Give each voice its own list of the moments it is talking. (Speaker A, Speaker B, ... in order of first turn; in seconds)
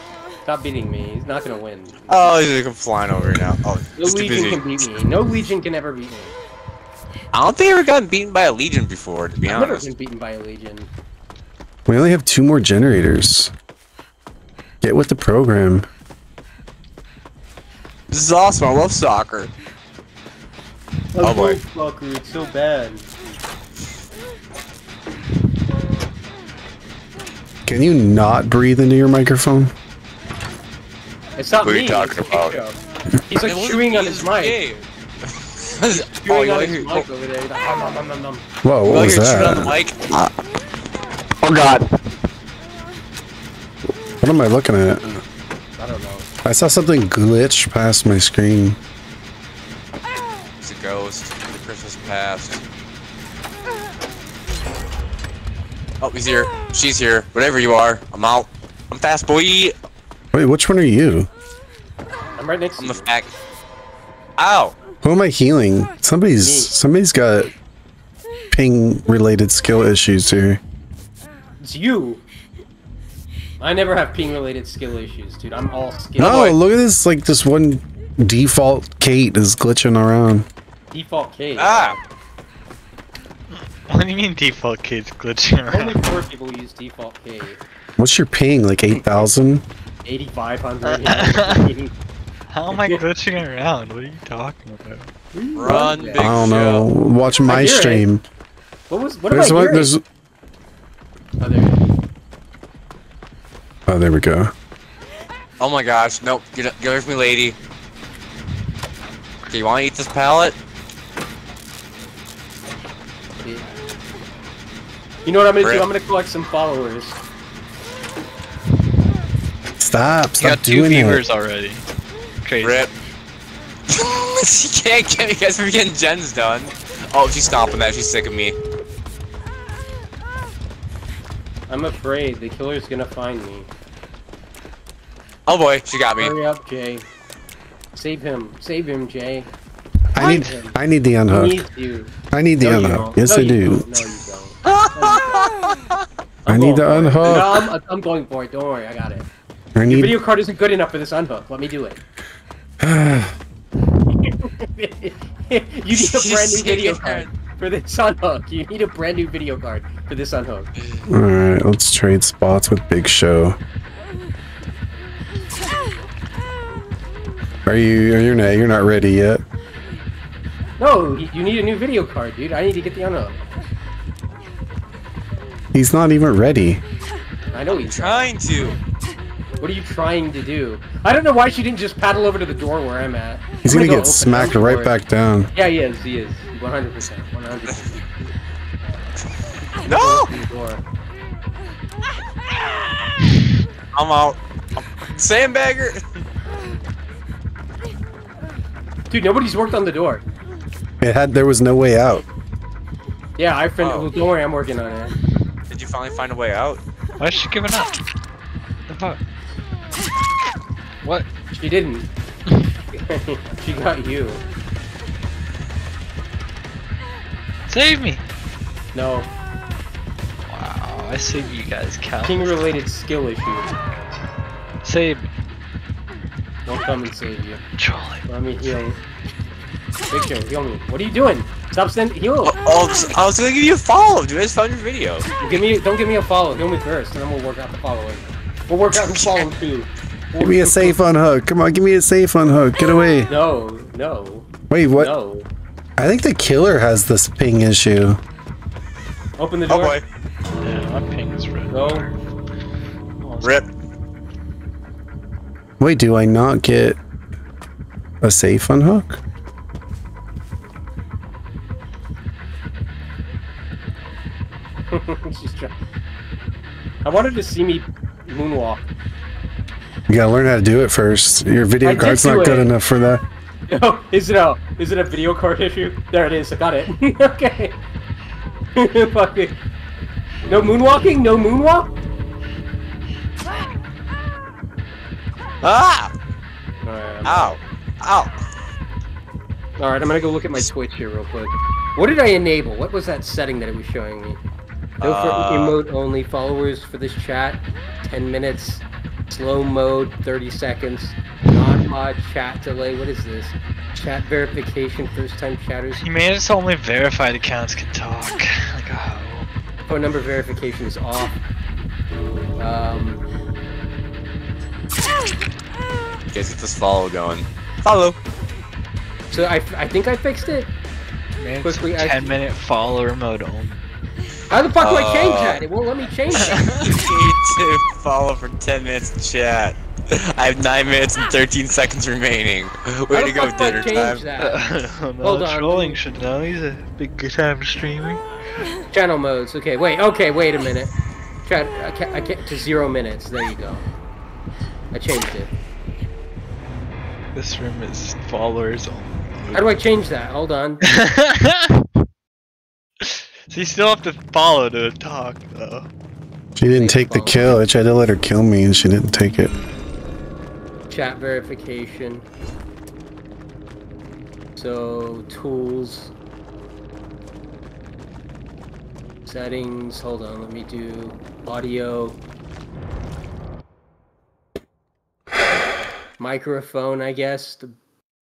Speaker A: 0.4-2.4, 4.0-6.3, 9.4-10.9, 21.1-23.1, 31.4-32.8, 33.3-34.6, 35.8-38.4, 45.8-46.3, 62.4-63.1, 66.4-66.7, 71.6-72.2, 73.6-76.5, 80.9-82.0, 85.7-87.6, 90.0-91.9, 92.7-93.0, 95.3-96.3, 97.4-98.0, 98.9-99.9, 101.4-101.8, 115.2-117.2, 131.7-133.7, 136.2-137.0, 137.9-139.5, 140.2-140.7, 141.3-145.4, 146.4-149.3, 149.9-152.0, 154.1-160.7, 170.8-173.4, 177.5-178.3, 179.6-184.9, 185.5-188.3, 189.8-190.8, 199.1-200.2, 203.4-205.2, 211.5-212.1, 212.9-214.4, 218.9-219.3, 222.2-223.7, 226.7-227.6, 228.3-229.0, 230.1-232.6, 235.4-241.0, 243.3-245.4, 249.4-250.0, 251.7-252.1, 264.9-265.8, 267.0-268.9, 271.8-272.7, 273.7-277.8, 278.8-279.6, 280.5-281.9, 286.8-287.6, 289.8-294.4, 295.0-306.0, 309.9-311.4, 312.6-313.2, 319.3-320.7, 321.6-322.3, 324.5-326.8, 333.1-334.7, 335.2-336.0, 338.9-340.9, 341.4-343.8, 344.9-345.5, 349.5-350.8, 356.7-357.6, 360.9-362.2, 364.6-366.1, 369.2-372.2, 376.2-377.7
Speaker B: 2.1-4.7, 7.3-9.9, 18.1-19.5, 21.2-21.6, 31.6-32.6, 33.4-34.9, 35.4-37.0, 38.9-40.3, 41.4-41.9, 50.6-52.6, 56.0-59.7, 62.8-63.3, 64.4-64.7, 81.6-82.0, 95.5-96.9, 105.6-107.5, 109.5-110.5, 122.6-122.9, 123.9-128.6, 135.5-136.3, 144.7-145.5, 155.9-157.3, 177.7-178.8, 187.7-188.0, 189.8-190.3, 193.9-196.0, 203.8-204.1, 205.7-206.8, 232.4-235.2, 239.0-239.3, 249.7-250.0, 285.6-286.1, 287.2-288.3, 295.0-295.8, 316.3-318.1, 324.8-325.6, 326.4-334.2
Speaker C: 11.9-13.5, 14.8-15.8, 27.6-29.7, 38.6-39.8, 44.2-45.2, 46.4-48.8, 60.3-61.3, 65.0-67.5, 68.5-70.6, 76.2-80.5, 88.0-89.6, 95.7-98.2, 99.3-100.0, 103.9-104.5, 119.8-121.2, 140.1-141.6, 142.3-143.8, 146.5-147.5, 149.8-150.2, 152.8-153.3, 161.1-163.6, 167.7-169.4, 175.7-176.8, 183.6-185.5, 201.0-202.2, 240.4-243.3, 244.7-245.1, 246.0-248.2, 255.8-257.0, 258.2-259.2, 270.1-273.2, 356.6-359.5
Speaker D: 83.9-86.0, 90.8-91.7, 92.5-95.1, 120.3-121.8, 122.4-122.8, 140.2-140.5, 207.2-208.0, 208.9-209.2, 217.7-218.2, 220.5-222.8, 224.8-225.3, 227.8-228.2, 250.6-252.2, 253.2-253.6, 306.0-309.5, 321.4-323.8, 326.4-327.0, 334.4-338.2, 346.7-349.8, 350.9-351.7, 353.0-355.9